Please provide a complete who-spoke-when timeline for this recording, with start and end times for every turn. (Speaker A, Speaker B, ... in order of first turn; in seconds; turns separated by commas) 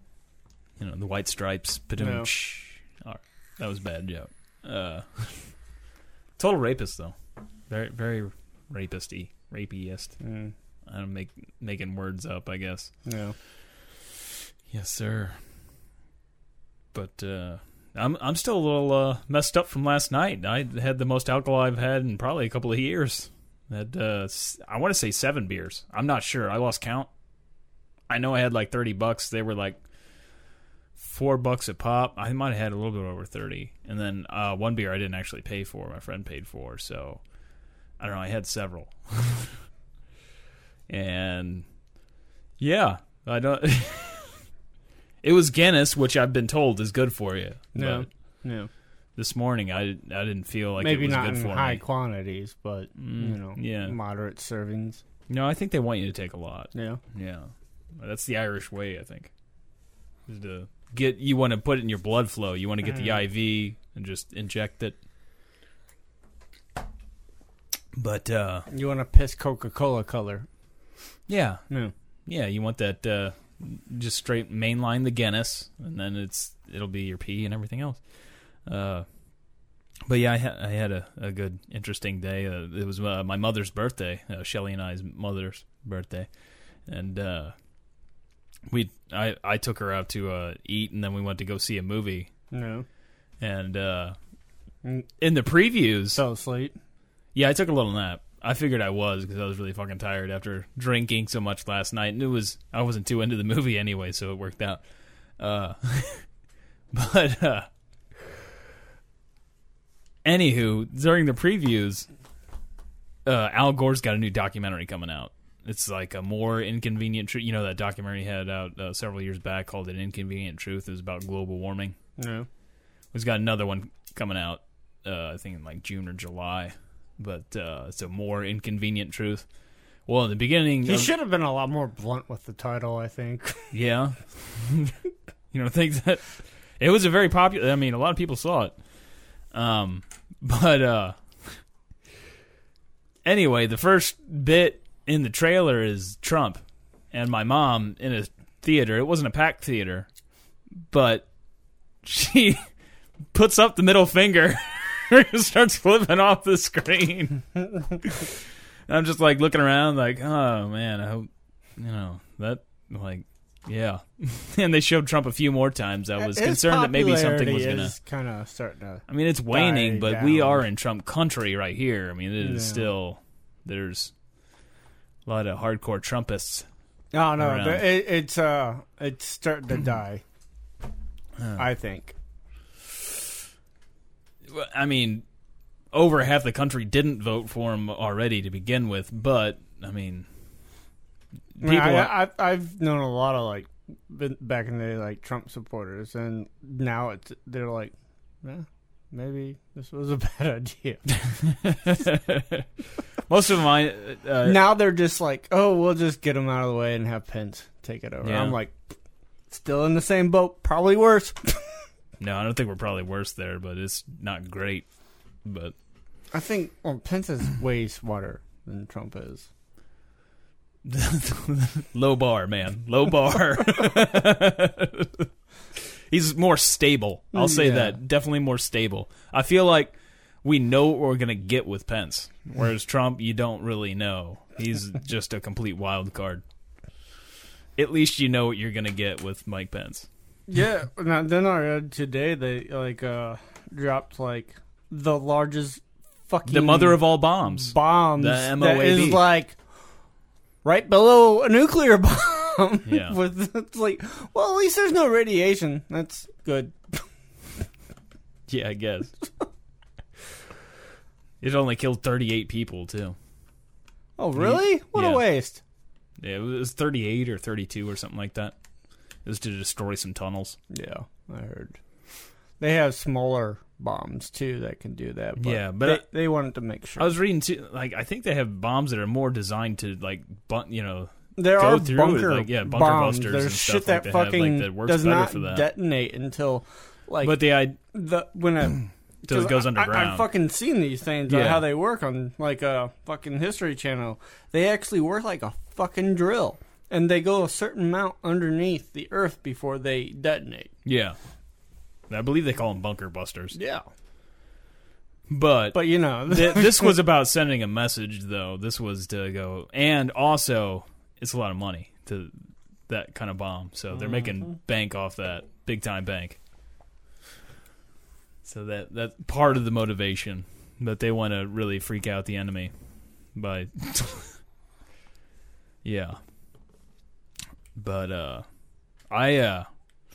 Speaker A: 0.8-5.5, Speaker B: 2.0-2.3, Speaker A: 6.4-7.2, Speaker A: 7.7-10.2, Speaker B: 10.2-10.5, Speaker A: 10.9-12.9, Speaker B: 13.1-13.3, Speaker A: 14.7-15.4, Speaker A: 16.9-27.1, Speaker A: 28.1-29.8, Speaker A: 31.0-37.2, Speaker A: 38.0-39.5, Speaker A: 40.9-41.6, Speaker A: 42.6-44.3, Speaker A: 45.2-48.1, Speaker B: 47.8-48.7, Speaker A: 49.2-51.8, Speaker B: 50.8-55.0, Speaker A: 53.0-54.0, Speaker A: 55.3-59.3, Speaker B: 56.8-57.0, Speaker A: 60.3-65.0, Speaker B: 62.9-63.2, Speaker A: 67.9-68.7, Speaker B: 68.7-70.5, Speaker A: 71.3-71.6, Speaker A: 72.3-78.0, Speaker A: 78.7-79.1, Speaker A: 80.1-86.3, Speaker A: 86.9-87.5, Speaker A: 88.7-92.3, Speaker B: 92.5-92.9, Speaker A: 93.4-94.2, Speaker A: 95.2-96.2, Speaker B: 96.2-96.8, Speaker A: 97.3-104.8, Speaker A: 105.4-106.2, Speaker A: 106.9-107.7, Speaker A: 110.2-112.1, Speaker A: 113.2-122.0, Speaker B: 122.2-122.5, Speaker A: 123.1-129.5, Speaker A: 130.1-131.1, Speaker B: 130.9-133.7, Speaker A: 133.7-134.9, Speaker A: 135.5-138.8, Speaker A: 139.5-141.2, Speaker A: 143.2-146.6, Speaker A: 147.1-150.1, Speaker A: 150.9-151.3, Speaker A: 152.0-152.6, Speaker A: 153.3-157.4, Speaker A: 158.9-167.9, Speaker B: 166.2-170.7, Speaker A: 169.1-174.1, Speaker B: 172.4-172.9, Speaker A: 175.3-176.7, Speaker B: 177.1-180.2, Speaker A: 177.4-177.9, Speaker B: 181.6-182.1, Speaker A: 184.5-185.2, Speaker A: 185.9-190.3, Speaker A: 191.6-192.1, Speaker B: 191.6-201.1, Speaker A: 201.1-202.7, Speaker A: 203.3-204.6, Speaker B: 204.4-208.8, Speaker A: 208.2-208.6, Speaker B: 209.5-211.8, Speaker A: 212.2-214.8, Speaker A: 215.4-215.7, Speaker B: 216.3-219.5, Speaker A: 220.8-236.4, Speaker B: 227.3-228.0, Speaker A: 237.8-240.1, Speaker B: 240.5-249.6, Speaker A: 246.5-249.2, Speaker B: 250.6-257.0, Speaker A: 252.9-253.2, Speaker A: 258.5-259.1, Speaker A: 261.4-263.2, Speaker B: 264.2-265.6, Speaker A: 264.4-265.2, Speaker A: 266.2-268.6, Speaker A: 269.2-270.6, Speaker B: 270.7-271.8, Speaker B: 272.6-277.1, Speaker A: 275.4-276.0, Speaker A: 277.0-285.7, Speaker B: 281.4-300.7, Speaker A: 287.2-287.8, Speaker A: 289.3-290.3, Speaker A: 291.3-291.6, Speaker A: 300.9-301.2, Speaker A: 302.1-303.6, Speaker B: 303.6-303.9, Speaker A: 305.3-312.4, Speaker B: 305.7-307.0, Speaker A: 312.9-316.4, Speaker B: 314.0-314.4, Speaker A: 318.4-322.7, Speaker A: 323.4-324.4, Speaker A: 325.8-326.2, Speaker A: 327.8-328.4, Speaker A: 329.1-329.7